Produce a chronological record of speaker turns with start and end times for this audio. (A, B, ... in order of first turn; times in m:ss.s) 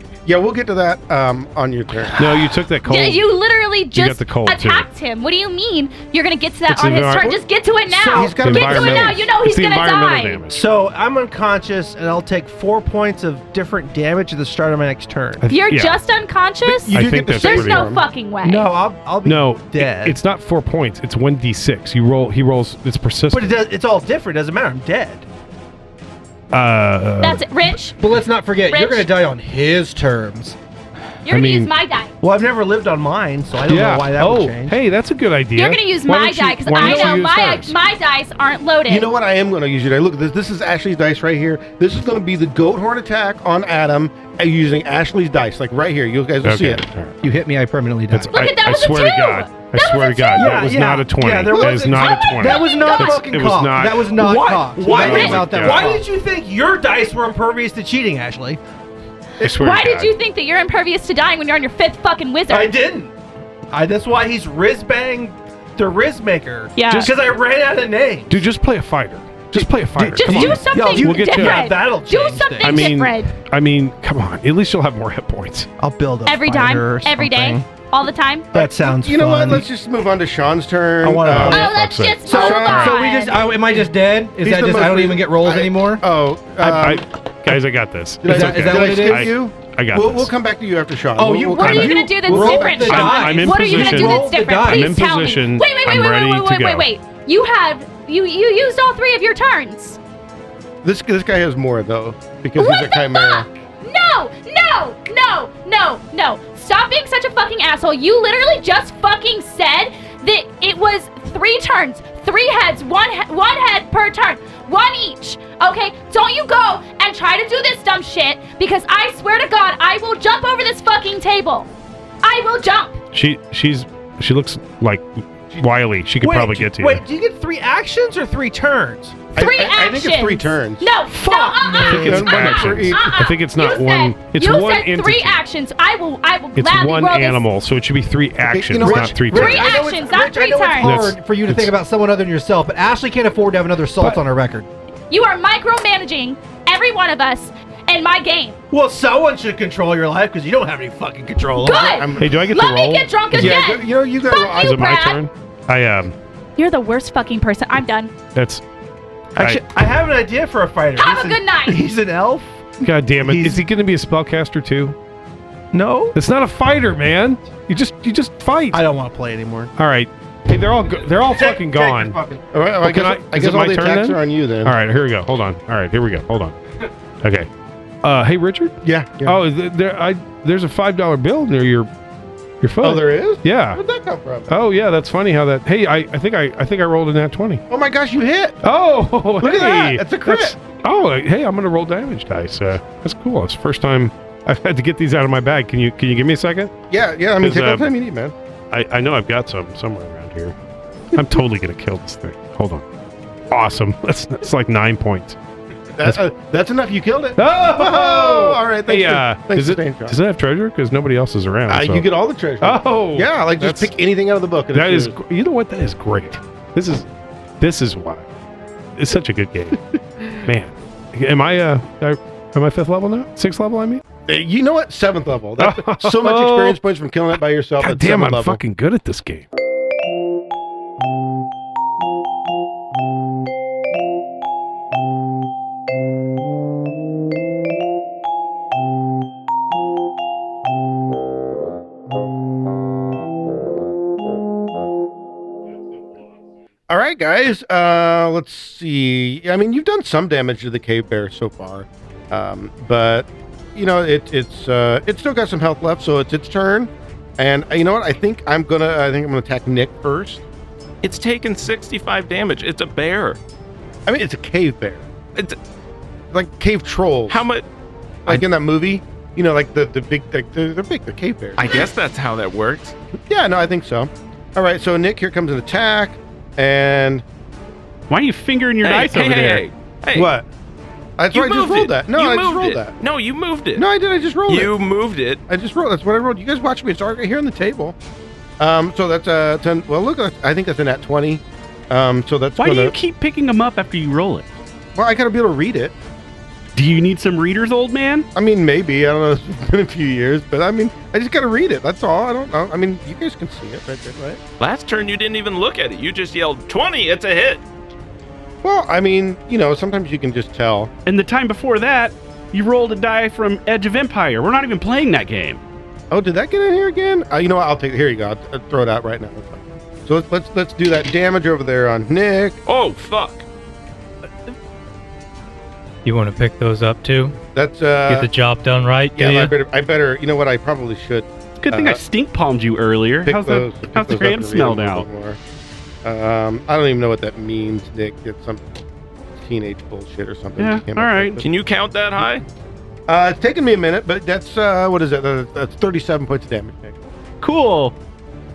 0:00.3-0:02.4 A
0:02.2-0:03.4 B
0:02.8-0:10.4 C
0:03.9-0:04.9 B
0:06.7-0:07.4 B
0:07.9-0:09.3 A
0:08.4-0:10.6 B
0:10.5-0:15.5 D
0:15.4-0:16.0 B
0:15.5-0:18.7 C
0:16.6-0:18.0 A
0:16.9-0:17.9 B
0:18.4-0:20.2 D
0:19.2-0:23.6 B
0:23.3-0:25.2 D
0:26.5-0:27.9 B
0:27.2-0:27.9 C
0:28.0-0:30.6 E
0:28.7-0:29.1 C
0:31.2-0:32.1 C
0:31.3-0:31.7 B
0:32.2-0:34.8 D
0:33.7-0:37.8 B
0:35.6-0:39.1 C
0:38.9-0:46.8 A
0:46.4-0:47.2 B
0:47.2-0:48.3 E
0:48.1-0:55.9 B
0:48.3-0:50.7 C
0:50.4-0:52.6 D
0:51.5-0:51.8 A
0:51.8-0:53.3 C
0:52.4-0:56.0 E
0:54.2-0:58.6 D
0:54.9-0:55.4 C
0:59.4-1:00.2 B
0:59.4-1:02.8 C
1:02.5-1:03.1 D
1:03.7-1:08.4 D
1:06.8-1:07.1 C
1:06.8-1:07.2 B
1:08.3-1:11.8 B
1:09.6-1:12.9 D
1:10.2-1:13.3 C
1:12.6-1:15.7 B
1:15.8-1:17.7 D
1:16.3-1:18.5 C
1:18.5-1:19.7 D
1:18.5-1:21.7 A
1:21.0-1:21.7 D
1:21.2-1:23.0 B
1:21.4-1:23.4 C
1:22.3-1:23.0 A
1:22.4-1:26.0 E
1:24.4-1:27.1 A
1:26.6-1:30.3 B
1:28.2-1:32.9 A
1:28.2-1:29.3 E
1:31.2-1:34.9 E
1:31.5-1:40.0 C
1:31.6-1:36.9 B
1:40.8-1:43.5 A
1:42.6-2:01.7 C
2:02.2-2:03.0 C
2:03.1-2:07.0 B
2:06.2-2:09.2 D
2:09.3-2:10.9 A
2:09.4-2:17.4 C
2:11.1-2:12.2 D
2:11.8-2:15.4 B
2:11.9-2:13.2 A
2:16.6-2:19.8 B
2:18.4-2:19.4 A
2:18.8-2:20.9 D
2:19.3-2:20.9 C
2:20.8-2:24.7 E
2:20.8-2:21.7 B
2:25.1-2:28.6 C
2:28.7-2:32.0 D
2:31.6-2:35.2 C
2:31.8-2:32.4 A
2:32.2-2:33.7 B
2:33.3-2:34.8 A
2:34.6-2:36.1 B
2:36.6-2:38.1 C
2:38.4-2:38.6 B
2:39.4-2:39.6 B
2:39.4-2:42.7 D
2:41.0-2:41.8 C
2:42.8-2:45.0 B
2:43.2-2:43.6 D
2:45.7-2:46.2 D
2:46.1-2:48.8 B
2:48.7-2:49.7 D
2:49.8-2:52.2 B
2:51.3-2:52.4 D
2:52.5-2:54.8 A
2:52.8-2:56.6 B
2:57.2-2:57.5 B
2:58.0-3:01.9 B
2:58.8-2:59.4 A
3:02.6-3:03.8 B
3:02.8-3:04.5 A
3:04.5-3:07.6 B
3:07.7-3:08.6 A
3:08.6-3:16.8 B
3:09.4-3:10.6 A
3:16.9-3:18.4 A
3:17.4-3:17.9 B
3:18.7-3:20.6 B
3:21.1-3:22.8 B
3:23.5-3:25.4 B
3:26.0-3:30.2 A
3:27.4-3:32.1 B
3:31.7-3:35.2 A
3:32.6-3:33.9 B
3:34.7-3:37.1 B
3:37.6-3:38.3 B
3:39.0-3:39.8 B
3:40.4-3:44.0 B
3:44.3-3:48.6 A
3:45.6-3:46.8 B
3:47.8-3:49.5 B
4:06.9-4:20.4 A
4:21.0-4:23.4 F
4:24.1-4:25.1 A
4:26.3-4:27.5 A
4:27.3-4:27.7 F
4:28.3-4:31.9 A
4:31.6-4:33.0 F
4:33.3-4:37.2 A
4:38.1-4:39.6 G
4:38.8-4:40.3 F
4:40.2-4:40.5 A
4:41.2-4:43.0 A
4:41.3-4:43.9 F
4:43.8-4:44.8 A
4:44.5-4:45.4 F
4:45.5-4:48.0 A
4:48.6-4:52.9 A
4:52.6-4:54.5 G
4:55.0-4:56.0 A
4:56.7-4:58.3 G
4:58.4-5:04.4 A
5:04.6-5:07.6 F
5:08.6-5:10.9 A
5:11.1-5:15.6 G
5:16.1-5:22.6 A
5:22.7-5:23.4 F
5:26.0-5:27.4 H
5:27.5-5:28.3 A
5:28.1-5:29.6 H
5:29.2-5:32.0 A
5:31.6-5:35.1 G
5:33.2-5:35.4 A
5:36.0-5:38.8 A
5:39.4-5:41.4 A
5:40.6-5:41.4 G
5:41.4-5:42.4 F
5:43.1-5:47.0 A
5:47.4-5:48.0 G